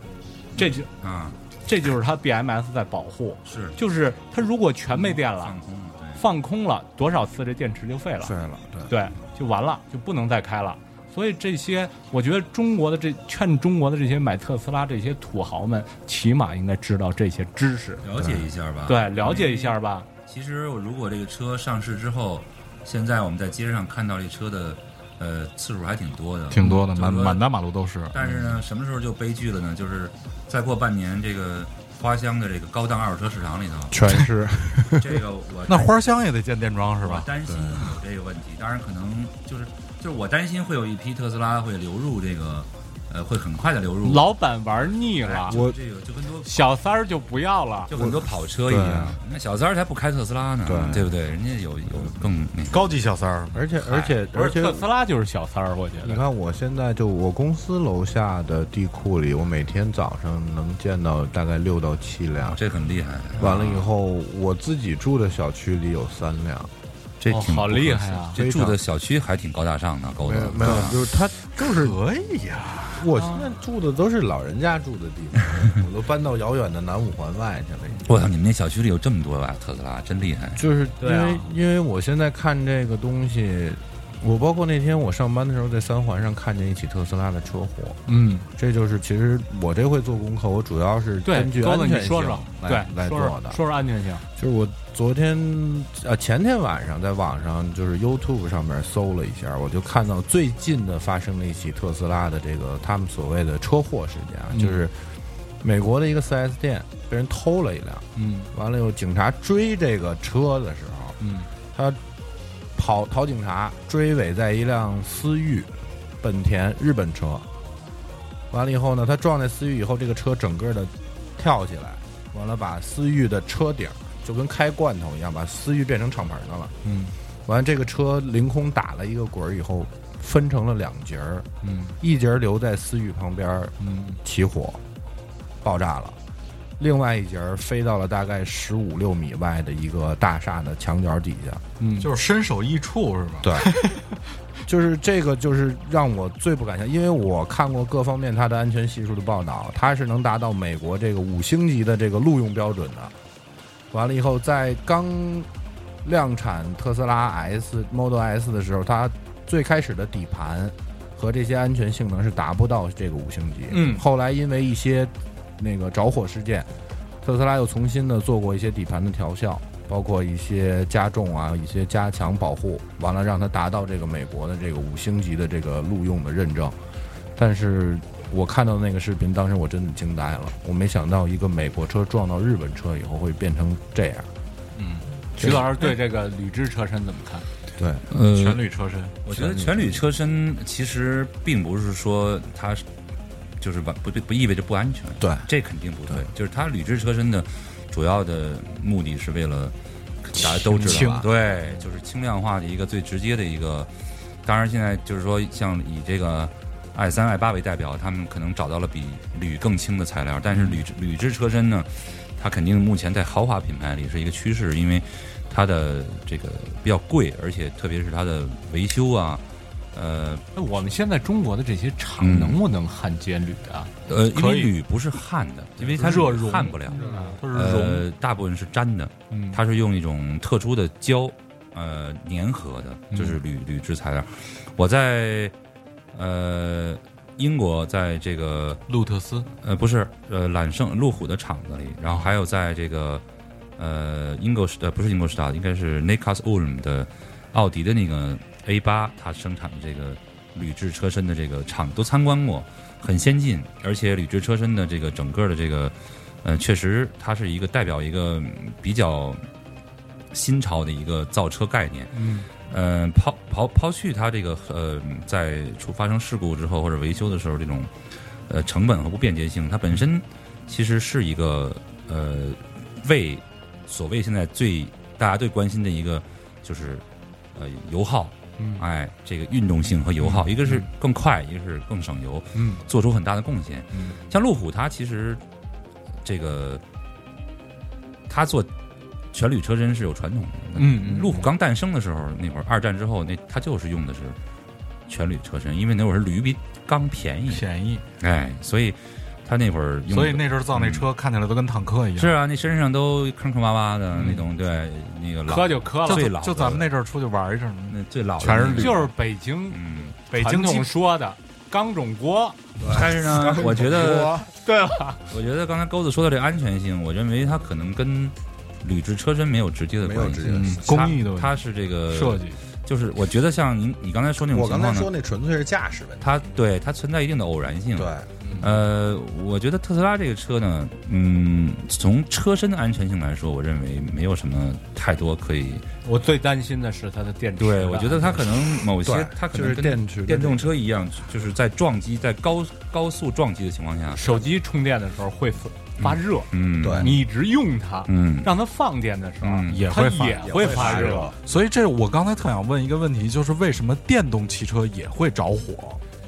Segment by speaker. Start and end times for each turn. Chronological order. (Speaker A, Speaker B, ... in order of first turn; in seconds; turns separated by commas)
Speaker A: 0.6-0.9, Speaker B: 0.6-1.4, Speaker A: 1.7-5.5, Speaker B: 3.5-3.8, Speaker B: 4.9-6.2, Speaker A: 6.2-8.3, Speaker C: 8.2-8.9, Speaker A: 8.9-18.0, Speaker B: 18.0-19.8, Speaker C: 18.2-18.4, Speaker A: 18.9-20.1, Speaker B: 20.3-27.4, Speaker D: 26.5-28.1, Speaker B: 28.1-34.0, Speaker C: 33.9-35.2, Speaker B: 35.0-35.9, Speaker D: 35.7-37.3, Speaker B: 37.0-46.8, Speaker A: 44.0-45.6, Speaker C: 45.5-45.8, Speaker A: 46.5-47.9, Speaker B: 47.9-53.0, Speaker C: 47.9-49.2, Speaker C: 50.6-51.1, Speaker D: 52.7-53.6, Speaker C: 53.5-54.9, Speaker A: 54.3-56.2, Speaker C: 56.0-62.6, Speaker B: 62.5-63.9, Speaker C: 63.4-66.7, Speaker B: 67.2-71.0, Speaker A: 67.3-68.4, Speaker C: 68.4-68.8, Speaker C: 70.2-72.0, Speaker D: 71.6-73.1, Speaker C: 72.9-78.2, Speaker A: 73.2-73.5, Speaker B: 78.1-80.6, Speaker C: 80.6-88.0, Speaker A: 81.0-81.5, Speaker A: 88.1-88.5, Speaker C: 88.5-93.6, Speaker A: 91.2-94.2, Speaker C: 94.4-105.0, Speaker A: 104.5-104.8, Speaker C: 105.6-111.2, Speaker A: 108.2-108.5, Speaker A: 111.2-111.5, Speaker C: 111.7-112.0, Speaker C: 112.8-117.5, Speaker C: 118.5-126.7, Speaker A: 126.8-127.2, Speaker C: 127.5-131.5, Speaker A: 131.6-131.9, Speaker C: 132.0-134.8, Speaker A: 133.8-134.2, Speaker C: 135.6-136.2, Speaker C: 136.8-141.6, Speaker A: 141.8-142.1, Speaker D: 142.0-143.7, Speaker C: 143.4-143.7, Speaker C: 144.7-153.1, Speaker C: 153.9-155.5, Speaker C: 156.0-166.7, Speaker A: 163.7-164.1, Speaker C: 167.2-176.8, Speaker C: 177.4-184.3, Speaker D: 184.8-185.1, Speaker A: 185.4-187.5, Speaker C: 187.8-188.0, Speaker B: 188.1-188.6, Speaker D: 188.2-189.2, Speaker B: 189.2-192.8, Speaker C: 189.3-189.8, Speaker B: 193.6-203.9, Speaker C: 195.2-195.5, Speaker D: 200.7-201.2, Speaker C: 200.8-201.3, Speaker B: 204.4-219.4, Speaker B: 219.9-220.4, Speaker A: 220.6-223.9, Speaker B: 222.2-222.6, Speaker B: 224.1-235.5, Speaker D: 224.3-224.7, Speaker D: 225.8-228.1, Speaker A: 226.9-227.4, Speaker C: 227.1-227.4, Speaker A: 229.3-229.6, Speaker A: 233.1-233.4, Speaker B: 236.1-238.8, Speaker D: 238.9-239.5, Speaker B: 239.6-243.2, Speaker B: 243.8-259.4, Speaker B: 260.3-267.9, Speaker A: 262.1-262.5, Speaker B: 268.5-277.0, Speaker B: 277.6-285.4, Speaker A: 278.6-278.8, Speaker A: 280.2-280.9, Speaker A: 282.5-282.8, Speaker A: 283.9-284.2, Speaker B: 286.2-286.8, Speaker B: 288.3-288.7, Speaker B: 289.3-294.4, Speaker A: 290.8-291.5, Speaker B: 295.1-297.6, Speaker D: 297.5-298.0, Speaker B: 298.2-301.1, Speaker D: 300.1-302.3, Speaker B: 302.2-306.9, Speaker A: 305.5-306.3, Speaker D: 306.1-309.1, Speaker B: 307.9-309.1, Speaker A: 308.7-309.8, Speaker B: 309.7-310.2, Speaker D: 310.3-310.9, Speaker A: 310.3-312.6, Speaker C: 312.8-314.5, Speaker B: 312.9-314.4, Speaker A: 314.6-315.2, Speaker B: 315.3-325.1, Speaker C: 320.0-320.9, Speaker D: 320.5-321.6, Speaker D: 322.1-322.6, Speaker C: 324.5-326.4, Speaker B: 326.2-335.9, Speaker C: 327.9-328.3, Speaker A: 336.1-338.5, Speaker B: 337.6-344.2, Speaker C: 339.0-340.7, Speaker A: 344.1-351.3, Speaker B: 346.0-347.2, Speaker C: 346.8-347.1, Speaker B: 348.1-348.5, Speaker B: 349.4-349.9, Speaker D: 349.7-356.0, Speaker C: 350.4-351.4